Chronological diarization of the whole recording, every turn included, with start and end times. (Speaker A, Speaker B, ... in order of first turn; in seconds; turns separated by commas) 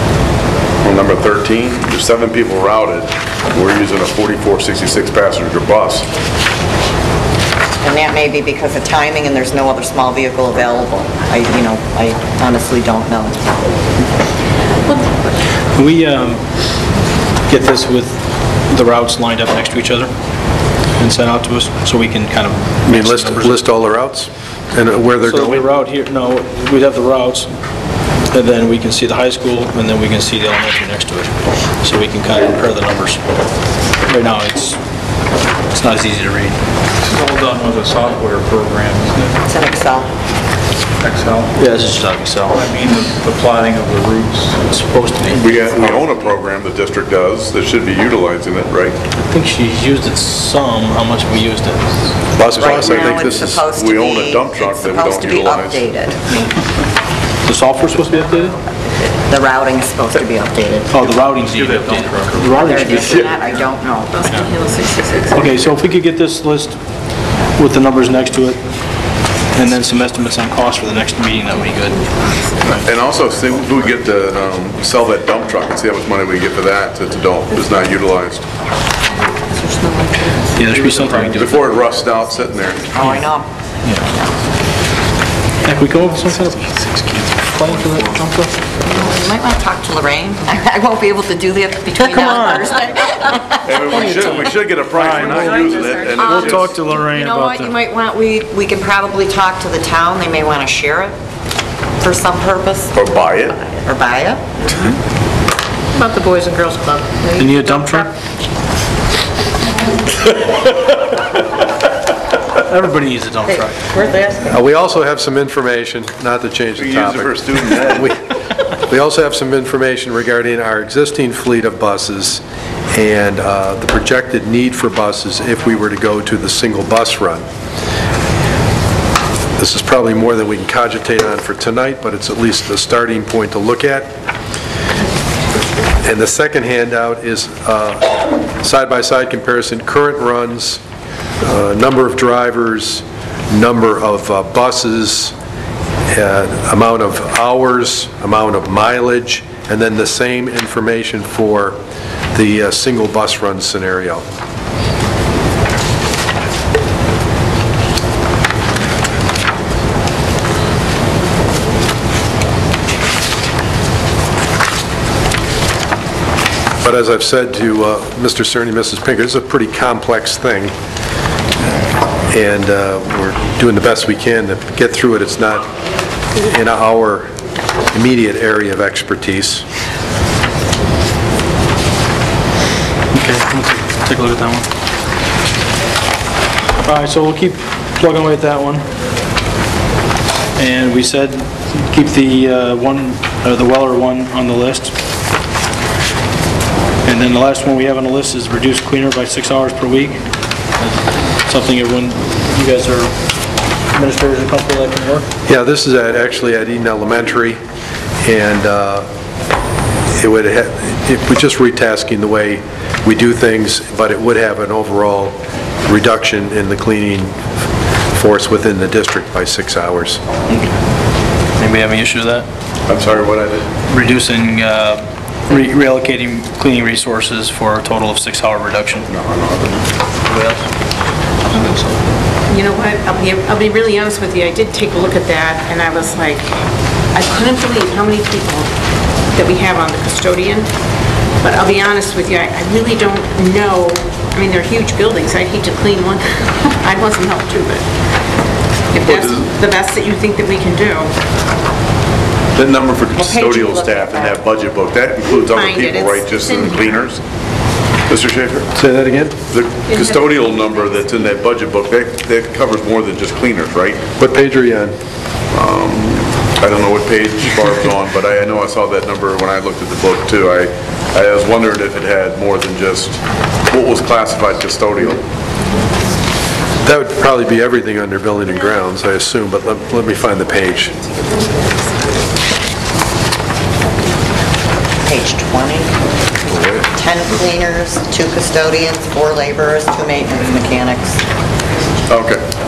Speaker A: 0.8-6.1, Speaker B: 7.8-13.6, Speaker C: 15.7-16.4, Speaker C: 17.5-20.1, Speaker C: 21.0-23.6, Speaker D: 22.9-25.6, Speaker C: 25.2-27.5, Speaker C: 28.3-33.2, Speaker C: 34.1-34.8, Speaker C: 35.7-36.6, Speaker E: 37.0-39.4, Speaker B: 39.5-40.1, Speaker E: 41.0-41.5, Speaker C: 41.6-42.6, Speaker E: 42.5-44.6, Speaker C: 44.7-46.0, Speaker A: 45.3-49.0, Speaker C: 49.1-51.9, Speaker D: 52.4-53.6, Speaker B: 52.6-56.2, Speaker A: 52.7-55.9, Speaker C: 57.5-58.5, Speaker B: 59.3-60.9, Speaker C: 60.9-63.3, Speaker E: 61.2-63.1, Speaker B: 62.6-64.2, Speaker F: 64.1-65.5, Speaker C: 65.3-66.8, Speaker C: 67.6-68.6, Speaker C: 69.5-72.0, Speaker F: 71.9-72.9, Speaker A: 72.7-78.5, Speaker B: 79.3-80.5, Speaker C: 80.5-81.6, Speaker E: 80.7-81.5, Speaker A: 81.3-82.9, Speaker B: 82.8-84.3, Speaker C: 83.8-84.1, Speaker C: 85.6-88.5, Speaker B: 88.8-94.3, Speaker C: 92.0-92.8, Speaker A: 93.7-96.8, Speaker C: 93.9-97.8, Speaker B: 95.5-101.2, Speaker B: 102.0-103.0, Speaker A: 102.9-103.6, Speaker B: 103.7-104.5, Speaker C: 107.3-108.1, Speaker C: 112.6-113.8, Speaker B: 113.5-114.6, Speaker D: 114.4-127.5, Speaker A: 116.8-118.1, Speaker D: 129.6-134.2, Speaker D: 136.0-140.8, Speaker D: 141.4-145.3, Speaker D: 146.1-151.8, Speaker D: 152.3-154.2, Speaker D: 166.8-170.7, Speaker D: 172.3-175.7, Speaker D: 176.3-177.3, Speaker D: 177.9-179.7, Speaker C: 183.1-184.7, Speaker C: 186.8-188.8, Speaker C: 190.6-194.9, Speaker C: 197.1-200.2, Speaker C: 201.5-203.2, Speaker C: 203.9-205.3, Speaker D: 205.5-207.6, Speaker D: 208.2-209.1, Speaker D: 210.2-217.4, Speaker D: 218.1-220.2, Speaker C: 221.6-222.5, Speaker A: 222.9-223.7, Speaker C: 223.9-229.1, Speaker A: 229.1-229.9, Speaker C: 230.3-230.6, Speaker C: 231.5-232.0, Speaker F: 232.5-236.5, Speaker F: 237.1-238.7, Speaker F: 239.3-240.7, Speaker F: 241.4-247.9, Speaker F: 248.9-251.1, Speaker A: 249.0-249.5, Speaker A: 252.5-257.2, Speaker B: 253.2-254.4, Speaker F: 255.5-257.0, Speaker A: 258.1-258.7, Speaker D: 258.8-259.4, Speaker A: 259.5-264.0, Speaker F: 259.9-261.1, Speaker D: 264.2-264.9, Speaker A: 265.5-275.2, Speaker D: 276.9-280.9, Speaker B: 285.1-285.9, Speaker A: 286.5-286.8, Speaker B: 286.8-291.2, Speaker A: 292.1-292.5